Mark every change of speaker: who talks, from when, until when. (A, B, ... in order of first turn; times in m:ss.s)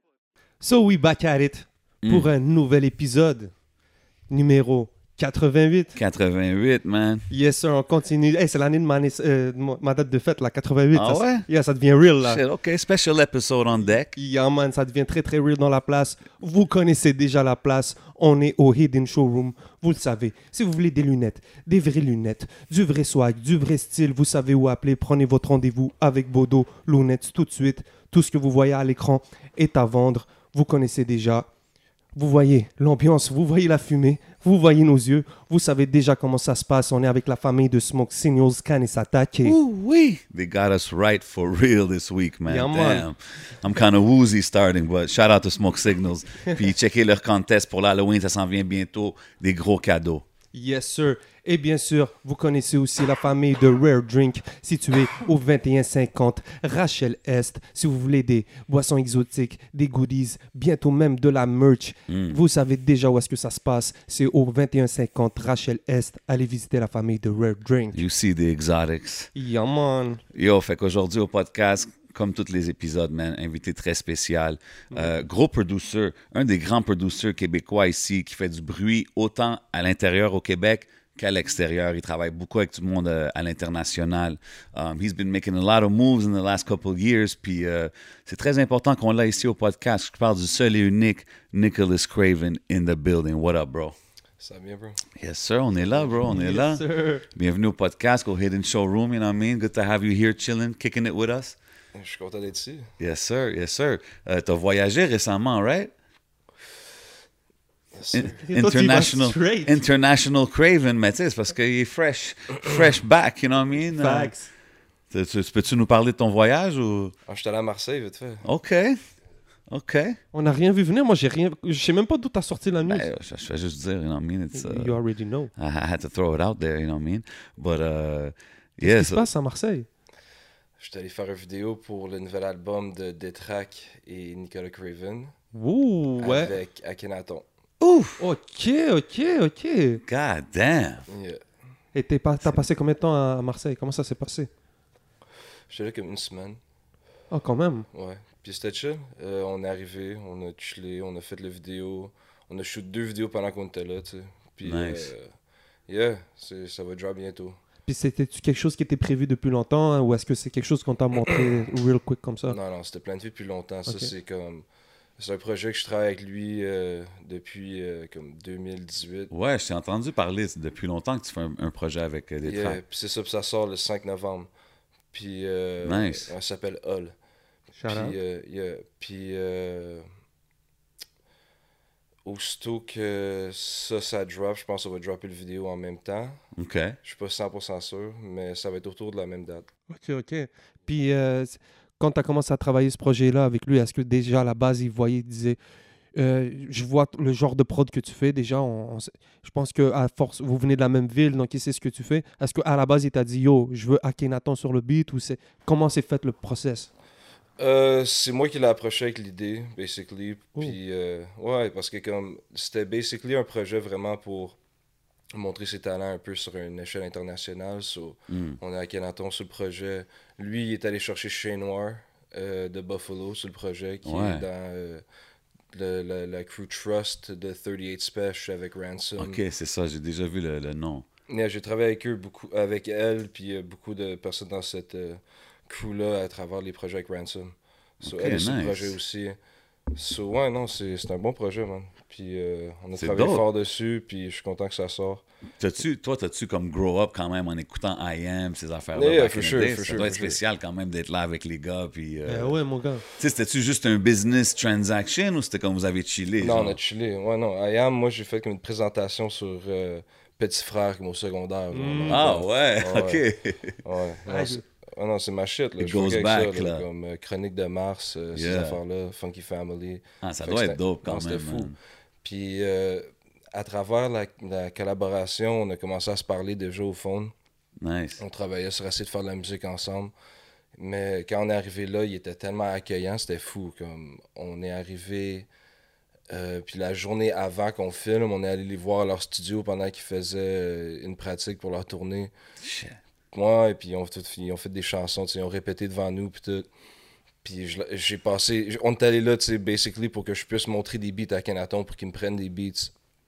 0:00.6-0:03.5 A
0:02.0-0:02.3 B
0:04.3-0:06.0 A
0:05.9-0:07.2 B
0:07.3-0:12.4 A
0:10.9-0:11.4 B
0:12.2-0:14.2 B
0:14.2-0:31.5 A
0:32.1-0:39.6 A
0:39.4-0:50.2 B
0:42.5-0:43.0 A
0:50.5-1:08.0 A
1:02.1-1:02.4 B
1:07.9-1:09.3 B
1:09.3-1:10.2 A
1:10.3-1:34.0 B
1:34.4-1:35.0 C
1:35.2-1:41.6 B
1:35.8-1:36.1 C
1:36.2-1:37.2 A
1:41.9-1:42.9 C
1:43.0-1:45.9 B
1:48.0-1:48.4 C
1:48.1-1:54.3 B
1:48.4-1:49.8 A
1:53.9-1:54.5 A
1:55.1-1:57.1 B
1:57.3-1:58.4 C
1:58.4-1:59.0 B
1:59.7-2:00.2 B
2:00.3-2:03.1 A
2:02.8-2:05.0 B
2:04.5-2:05.5 A
2:05.6-2:09.2 B
2:08.8-2:09.9 A
2:10.8-2:15.3 C
2:15.5-2:16.5 A
2:16.2-2:17.4 C
2:17.8-2:18.2 B
2:18.2-2:20.0 A
2:20.0-2:21.0 B
2:21.1-2:21.4 C
2:21.9-2:24.5 A
2:25.7-2:26.6 C
2:27.3-2:27.8 A
2:27.9-2:35.3 C
2:34.6-2:35.1 B
2:35.9-2:37.6 C
2:37.8-2:42.6 A
2:42.5-2:44.6 C
2:43.9-2:44.1 A
2:45.2-2:49.3 C
2:49.3-2:52.8 B
2:52.4-2:54.5 C
2:55.1-2:57.1 C
2:55.8-2:56.3 B
2:57.8-2:58.2 A
2:57.9-3:00.1 C
3:02.2-3:06.4 C
3:06.6-3:07.0 B
3:07.0-3:09.7 C
3:09.9-3:15.6 A
3:16.2-3:26.9 A
3:27.6-3:34.6 C
3:35.3-3:45.0 C
3:38.3-3:38.6 B
3:44.0-3:44.4 B
3:45.7-3:49.4 C
3:49.2-3:51.1 B
3:51.3-3:59.4 C
3:58.0-3:59.0 B
3:59.9-4:05.2 C
4:03.0-4:03.4 B
4:05.6-4:12.6 B
4:08.9-4:10.4 C
4:12.2-4:13.0 A
4:13.2-4:16.8 B
4:16.4-4:23.2 C
4:21.7-4:22.3 A
4:22.1-4:23.8 B
4:23.8-4:31.7 C
4:24.2-4:24.6 A
4:25.8-4:26.8 B
4:28.3-4:28.8 B
4:30.2-4:31.8 B
4:32.2-4:37.3 C
4:37.8-4:38.2 B
4:38.2-4:40.1 C
4:40.8-4:45.5 C
4:46.3-4:52.3 C
4:52.6-4:53.0 B
4:53.3-4:56.7 C
4:57.4-5:02.9 C